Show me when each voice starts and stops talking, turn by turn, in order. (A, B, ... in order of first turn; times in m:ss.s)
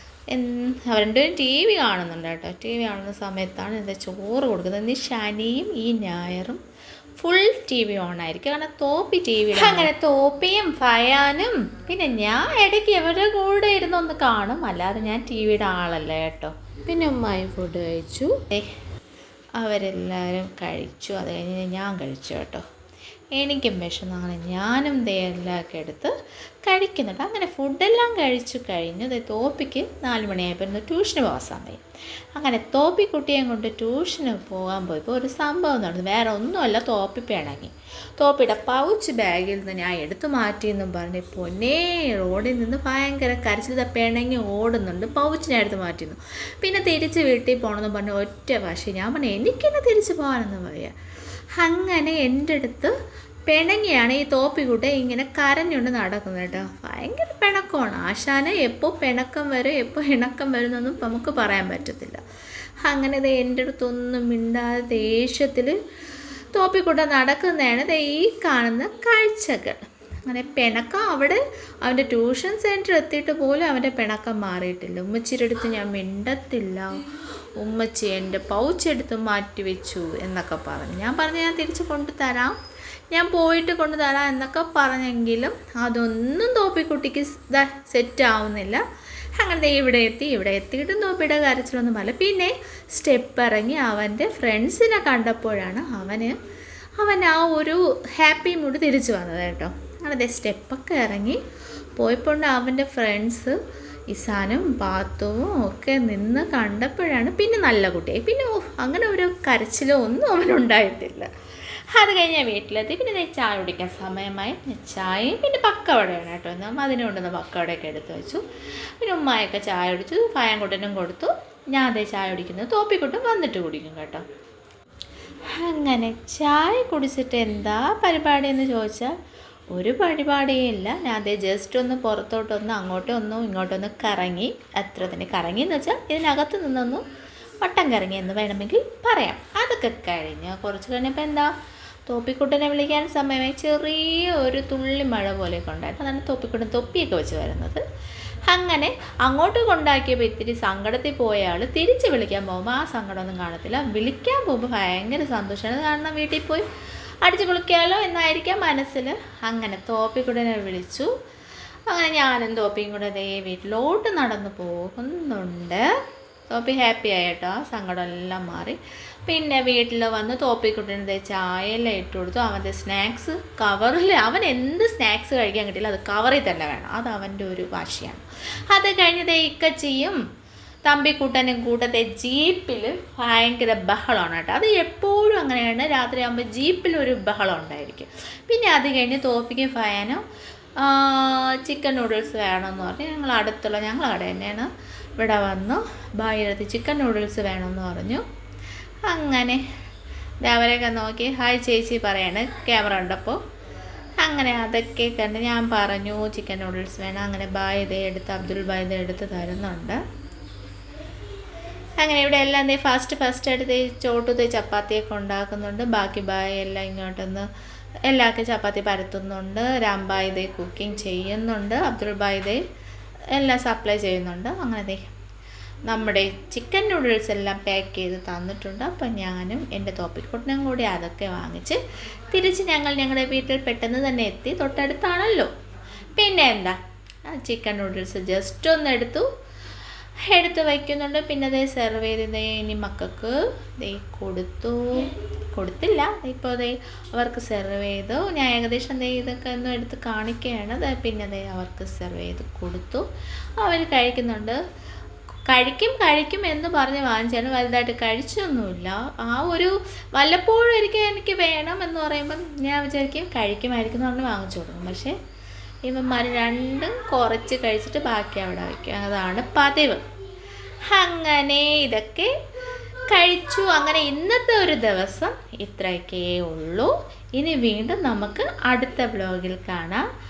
0:00.3-0:06.6 A
0:07.2-0:18.7 A
0:19.6-0:22.6 A
0:23.4-0:26.1 A
0:26.6-0:31.8 A
0:32.4-0:50.9 A
0:51.6-0:53.0 A
0:53.5-1:02.2 A
1:02.8-1:05.8 A
1:06.5-1:17.0 A
1:17.6-1:22.6 A
1:23.1-1:28.8 A
1:29.4-1:36.4 A
1:37.0-1:41.4 A
1:42.0-1:43.6 A
1:44.1-1:51.3 A
1:51.9-1:58.4 A
1:59.0-2:04.2 A
2:05.5-2:09.1 A
2:09.7-2:17.0 A
2:17.6-2:21.5 A
2:22.1-2:27.8 A
2:28.5-2:36.7 A
2:37.2-2:41.1 A
2:41.9-2:45.8 A
2:46.5-3:00.2 A
3:00.8-3:10.2 A
3:10.8-3:18.2 A
3:19.1-3:19.6 A
3:20.4-3:23.4 A
3:24.2-3:30.0 A
3:32.0-3:37.5 A
3:38.1-3:42.6 A
3:43.3-3:45.0 A
3:45.9-3:51.8 A
3:52.3-3:55.5 A
3:56.2-3:56.8 A
3:57.3-3:59.3 A
4:00.3-4:13.0 A
4:13.6-4:14.6 A
4:15.5-4:25.2 A
4:25.8-4:30.0 A
4:30.9-4:32.3 A
4:33.1-4:40.0 A